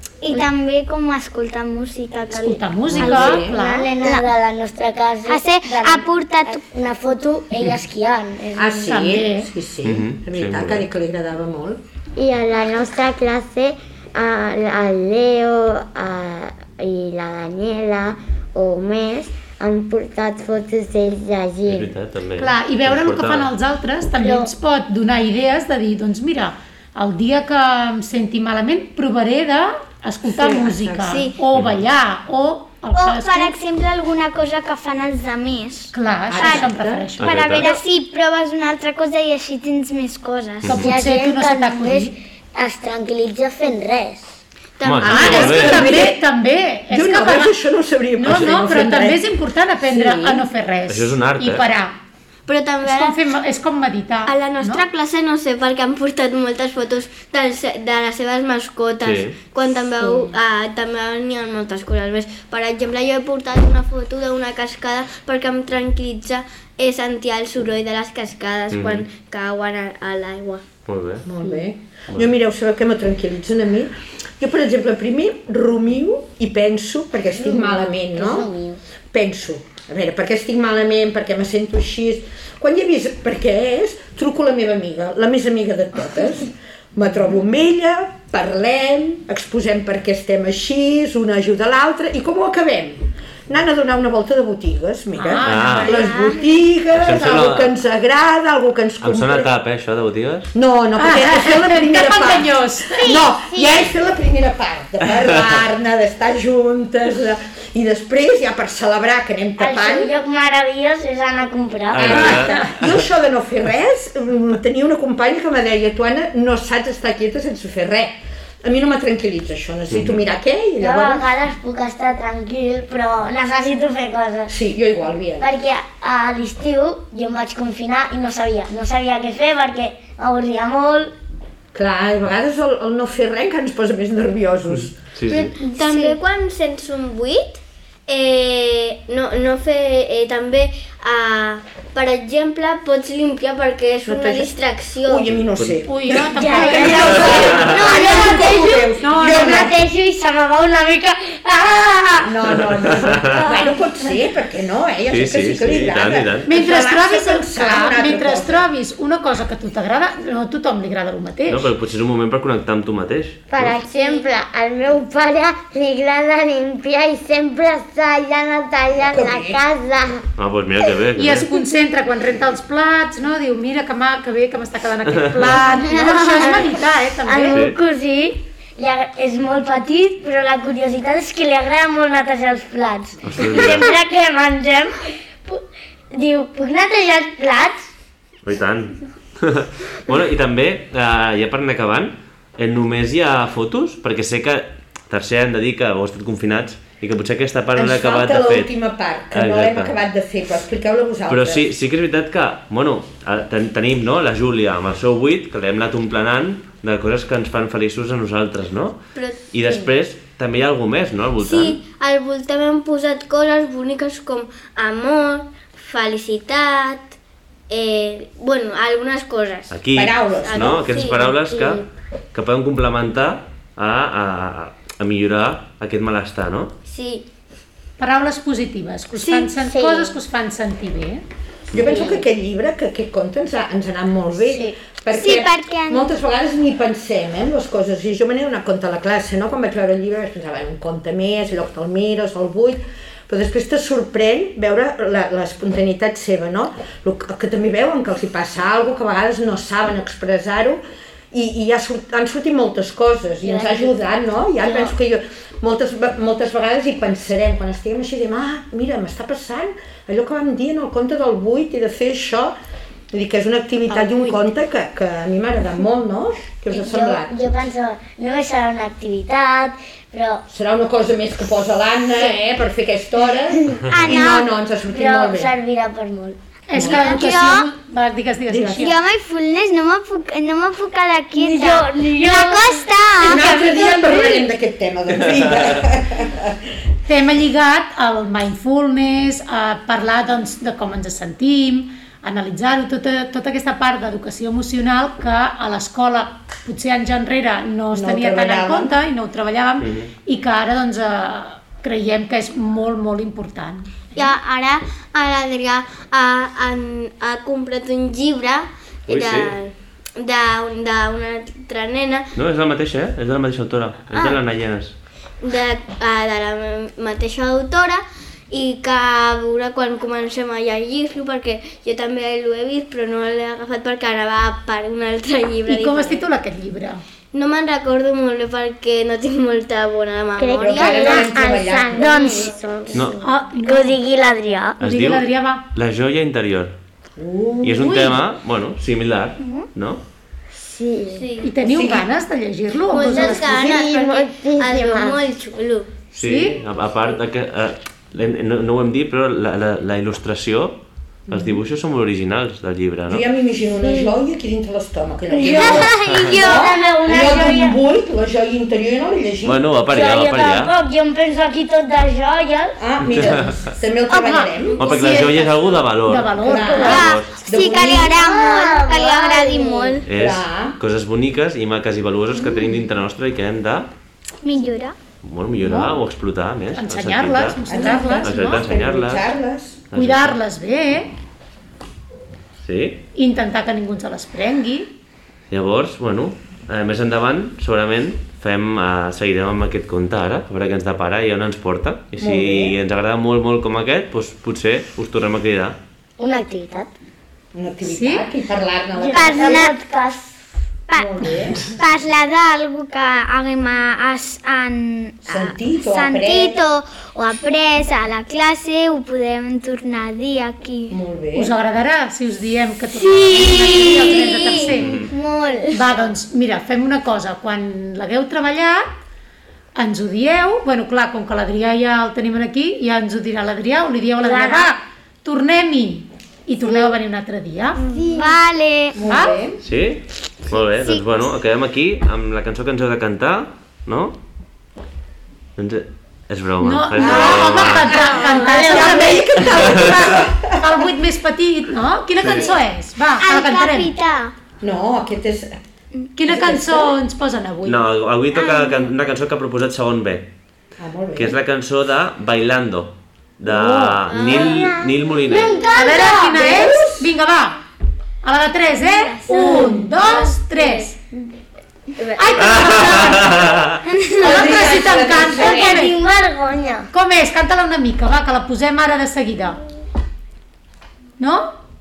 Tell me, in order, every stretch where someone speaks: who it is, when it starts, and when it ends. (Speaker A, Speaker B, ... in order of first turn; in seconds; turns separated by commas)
Speaker A: 0.2-4.3, Speaker B: 2.3-3.9, Speaker C: 2.9-3.5, Speaker D: 3.4-9.2, Speaker A: 5.3-6.6, Speaker C: 8.5-11.8, Speaker B: 8.8-9.5, Speaker E: 9.8-10.9, Speaker F: 12.2-21.9, Speaker E: 21.7-23.5, Speaker B: 22.4-33.5, Speaker D: 24.2-24.5, Speaker C: 30.3-31.3, Speaker G: 31.1-31.4, Speaker E: 31.5-31.8, Speaker A: 32.9-40.7, Speaker B: 35.9-37.5, Speaker C: 36.3-37.1, Speaker E: 37.2-37.7, Speaker E: 40.6-40.9, Speaker B: 40.6-42.1, Speaker D: 40.7-44.4, Speaker G: 44.8-45.9, Speaker E: 44.8-45.9, Speaker C: 45.0-46.2, Speaker B: 45.0-47.5, Speaker C: 46.9-49.2, Speaker B: 48.2-52.0, Speaker C: 49.8-50.5, Speaker E: 50.9-51.6, Speaker G: 52.5-53.2, Speaker B: 52.8-54.8, Speaker G: 54.2-70.6, Speaker E: 59.0-59.4, Speaker E: 68.7-69.0, Speaker E: 70.8-71.2, Speaker C: 71.2-78.5, Speaker D: 77.3-78.8, Speaker C: 79.1-99.5, Speaker B: 95.2-96.2, Speaker E: 95.4-96.0, Speaker A: 95.9-96.4, Speaker E: 97.0-97.7, Speaker E: 99.0-100.5, Speaker C: 100.5-110.1, Speaker B: 101.0-103.1, Speaker A: 102.9-103.8, Speaker D: 109.6-112.5, Speaker E: 111.9-112.9, Speaker C: 111.9-121.3, Speaker E: 119.9-120.2, Speaker D: 120.8-124.5, Speaker C: 124.5-125.5, Speaker D: 125.4-131.1, Speaker C: 131.7-135.0, Speaker E: 134.8-135.5, Speaker A: 135.3-136.2, Speaker G: 135.6-145.3, Speaker C: 144.1-144.5, Speaker C: 145.0-149.7, Speaker E: 145.3-145.8, Speaker B: 145.8-149.7, Speaker D: 146.3-152.3, Speaker F: 146.8-148.7, Speaker E: 147.1-147.9, Speaker F: 149.4-149.7, Speaker C: 152.2-158.7, Speaker E: 152.6-153.4, Speaker E: 155.1-156.5, Speaker B: 156.4-161.7, Speaker E: 161.5-163.8, Speaker F: 163.5-170.2, Speaker G: 164.0-164.2, Speaker C: 169.1-169.6, Speaker E: 170.4-171.5, Speaker B: 171.2-177.6, Speaker F: 176.0-176.7, Speaker D: 177.3-185.6, Speaker F: 177.4-177.8, Speaker E: 177.5-177.8, Speaker E: 183.2-183.9, Speaker D: 186.1-187.9, Speaker E: 188.4-198.7, Speaker C: 197.7-201.7, Speaker E: 199.3-200.0, Speaker E: 201.3-211.8, Speaker G: 209.2-209.9, Speaker G: 211.4-217.2, Speaker G: 217.7-219.8, Speaker E: 219.7-221.8, Speaker C: 219.9-220.8, Speaker G: 220.4-221.9, Speaker E: 222.3-226.7, Speaker G: 226.9-227.2, Speaker B: 228.0-231.2, Speaker F: 229.2-230.1, Speaker C: 231.7-250.8, Speaker G: 231.8-232.2, Speaker A: 235.1-236.1, Speaker C: 251.3-262.5, Speaker D: 253.4-253.9, Speaker D: 254.6-254.9, Speaker C: 263.1-267.3, Speaker D: 266.7-270.4, Speaker C: 270.5-275.5, Speaker A: 273.9-274.5, Speaker D: 274.9-276.4, Speaker B: 276.7-278.9, Speaker C: 276.7-277.1, Speaker A: 276.8-277.7, Speaker C: 278.5-278.8, Speaker A: 278.7-284.4, Speaker D: 281.4-283.6, Speaker C: 283.2-286.6, Speaker B: 287.1-304.3, Speaker C: 297.9-299.0, Speaker E: 299.8-300.1, Speaker G: 304.1-312.3, Speaker E: 309.1-309.5, Speaker E: 312.4-314.9, Speaker G: 315.4-326.2, Speaker B: 325.6-327.0, Speaker G: 327.3-331.4, Speaker F: 330.4-333.3, Speaker C: 330.6-332.4, Speaker D: 331.9-332.5, Speaker G: 332.0-332.6, Speaker E: 332.9-333.2, Speaker B: 333.2-334.0, Speaker D: 333.6-334.8, Speaker B: 334.8-335.6, Speaker E: 334.8-336.7, Speaker C: 337.2-338.1, Speaker E: 337.6-340.0, Speaker B: 337.8-338.2, Speaker F: 340.6-341.2, Speaker G: 341.1-341.5, Speaker B: 341.4-343.6, Speaker C: 341.6-342.1, Speaker G: 342.9-345.9, Speaker F: 343.2-345.2, Speaker E: 346.1-353.2, Speaker B: 346.2-346.6, Speaker C: 351.3-351.6, Speaker C: 353.1-359.6, Speaker D: 355.3-357.8, Speaker A: 355.4-356.9, Speaker E: 359.4-360.7, Speaker D: 359.9-362.8, Speaker C: 362.8-364.9, Speaker E: 363.1-363.6, Speaker B: 364.1-367.0, Speaker E: 364.8-367.4, Speaker C: 366.3-368.2, Speaker A: 366.7-370.0, Speaker D: 367.9-370.0, Speaker G: 368.3-369.9, Speaker E: 370.0-373.9, Speaker C: 370.1-370.8, Speaker A: 374.4-374.9, Speaker E: 375.2-379.3, Speaker B: 375.6-376.0, Speaker B: 376.7-378.3, Speaker C: 377.7-379.8, Speaker E: 379.9-380.4, Speaker B: 379.9-381.1, Speaker E: 382.6-383.0, Speaker B: 383.1-384.9, Speaker E: 385.5-395.8, Speaker C: 392.2-392.8, Speaker D: 396.2-396.9, Speaker C: 397.5-399.7, Speaker B: 397.8-398.3, Speaker D: 399.0-400.3, Speaker A: 399.1-399.8, Speaker A: 400.9-411.0, Speaker C: 400.9-401.6, Speaker C: 405.3-406.6, Speaker C: 410.9-411.5, Speaker B: 411.3-415.0, Speaker A: 413.0-416.0, Speaker E: 414.8-415.1, Speaker B: 415.7-418.9, Speaker B: 419.8-427.8, Speaker D: 424.2-424.7, Speaker A: 427.9-429.0, Speaker C: 428.9-429.6, Speaker B: 429.1-429.4, Speaker E: 429.6-434.2, Speaker A: 430.5-431.2, Speaker E: 435.6-438.0, Speaker B: 436.6-443.9, Speaker C: 437.0-440.9, Speaker A: 438.5-439.2, Speaker E: 439.5-440.0, Speaker E: 442.2-442.5, Speaker A: 443.2-444.3, Speaker C: 444.6-445.6, Speaker B: 446.1-447.8, Speaker C: 446.2-446.9, Speaker E: 447.6-450.3, Speaker A: 448.3-448.9, Speaker C: 450.8-451.4, Speaker E: 451.1-455.6, Speaker B: 453.4-454.0, Speaker G: 454.1-454.8, Speaker F: 454.5-454.9, Speaker D: 455.3-456.4, Speaker B: 455.7-457.6, Speaker C: 456.2-457.1, Speaker B: 458.2-461.0, Speaker G: 458.8-460.9, Speaker C: 459.5-459.8, Speaker G: 462.0-463.5, Speaker B: 462.1-463.6, Speaker E: 462.4-463.8, Speaker A: 463.9-464.5, Speaker C: 464.2-465.7, Speaker B: 464.2-465.9, Speaker D: 465.2-466.8, Speaker F: 465.4-466.8, Speaker B: 466.9-469.6, Speaker B: 471.2-471.5